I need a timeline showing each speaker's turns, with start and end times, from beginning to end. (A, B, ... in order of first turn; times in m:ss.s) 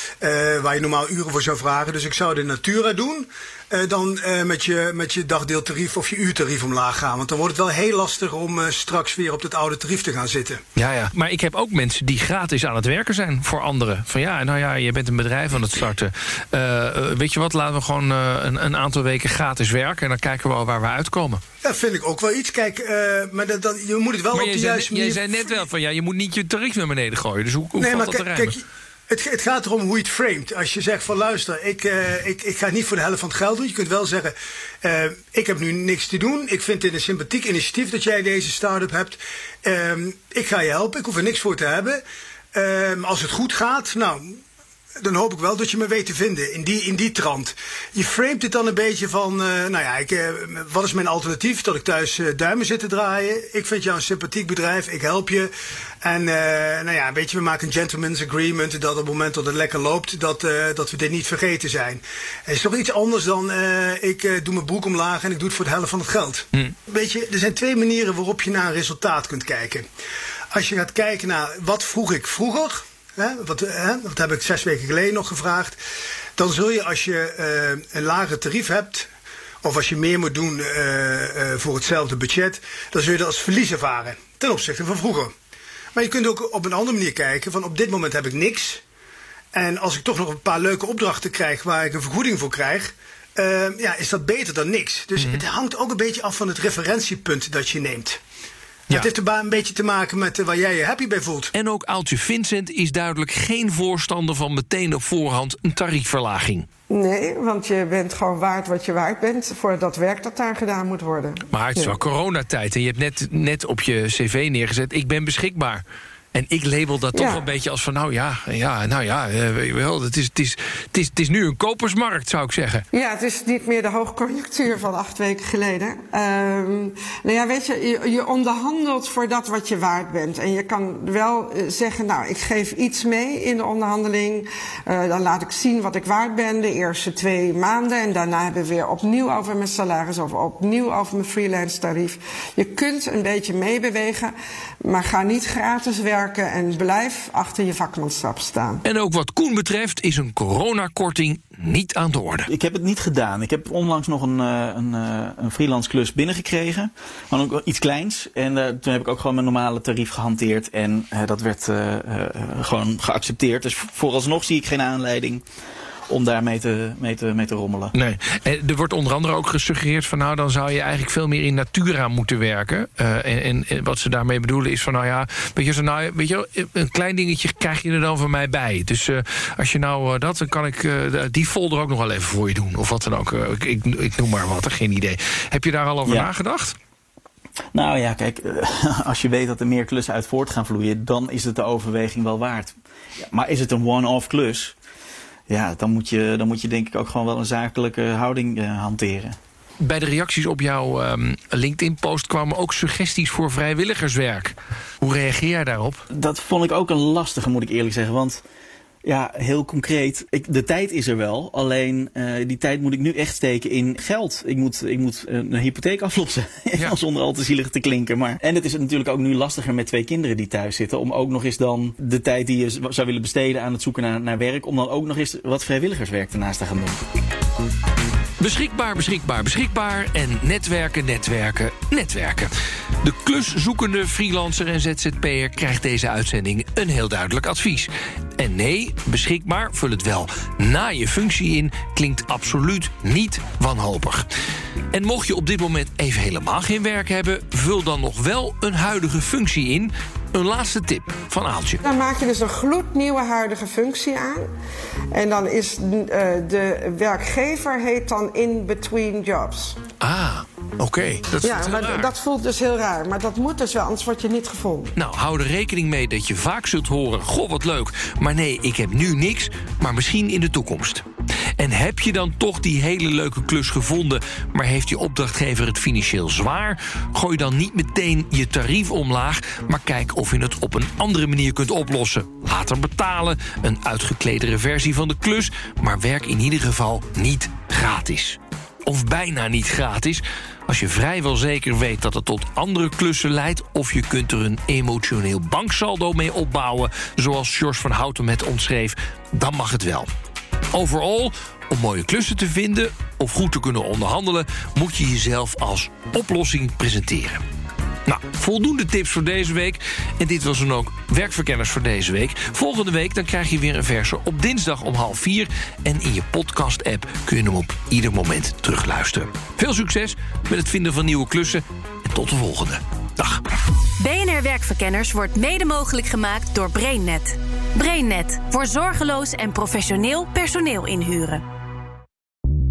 0:00.2-0:10.6 A
0:10.8-0:21.4 B
0:21.6-0:25.5 A
0:24.3-0:28.5 B
0:27.8-0:42.0 A
0:42.5-0:44.4 A
0:45.0-0:55.5 A
0:56.0-1:09.9 A
1:10.5-1:15.8 A
1:16.4-1:19.1 A
1:19.6-1:25.3 A
1:26.0-1:28.8 A
1:29.5-1:38.2 A
1:35.2-1:35.4 B
1:38.9-1:41.5 A
1:41.5-1:46.7 B
1:46.9-1:51.9 C
1:51.5-1:55.8 B
1:56.3-2:02.8 B
1:57.1-1:57.4 C
2:02.9-2:24.3 C
2:24.8-2:28.8 C
2:28.8-2:32.5 B
2:32.5-2:45.4 D
2:46.1-2:47.9 D
2:48.0-3:06.8 B
3:06.1-3:06.3 D
3:07.7-3:12.8 D
3:13.3-3:14.8 D
3:15.5-3:19.4 D
3:19.8-3:26.0 B
3:26.1-3:28.4 D
3:29.0-3:47.0 D
3:48.4-3:52.5 B
3:53.0-4:04.3 B
4:04.9-4:11.8 B
4:11.8-4:14.5 C
4:15.1-4:19.8 C
4:20.0-4:22.1 B
4:21.4-4:25.0 C
4:25.0-4:31.0 B
4:31.6-5:00.1 B
5:00.7-5:07.4 B
5:08.1-5:23.4 B
5:24.0-5:31.4 E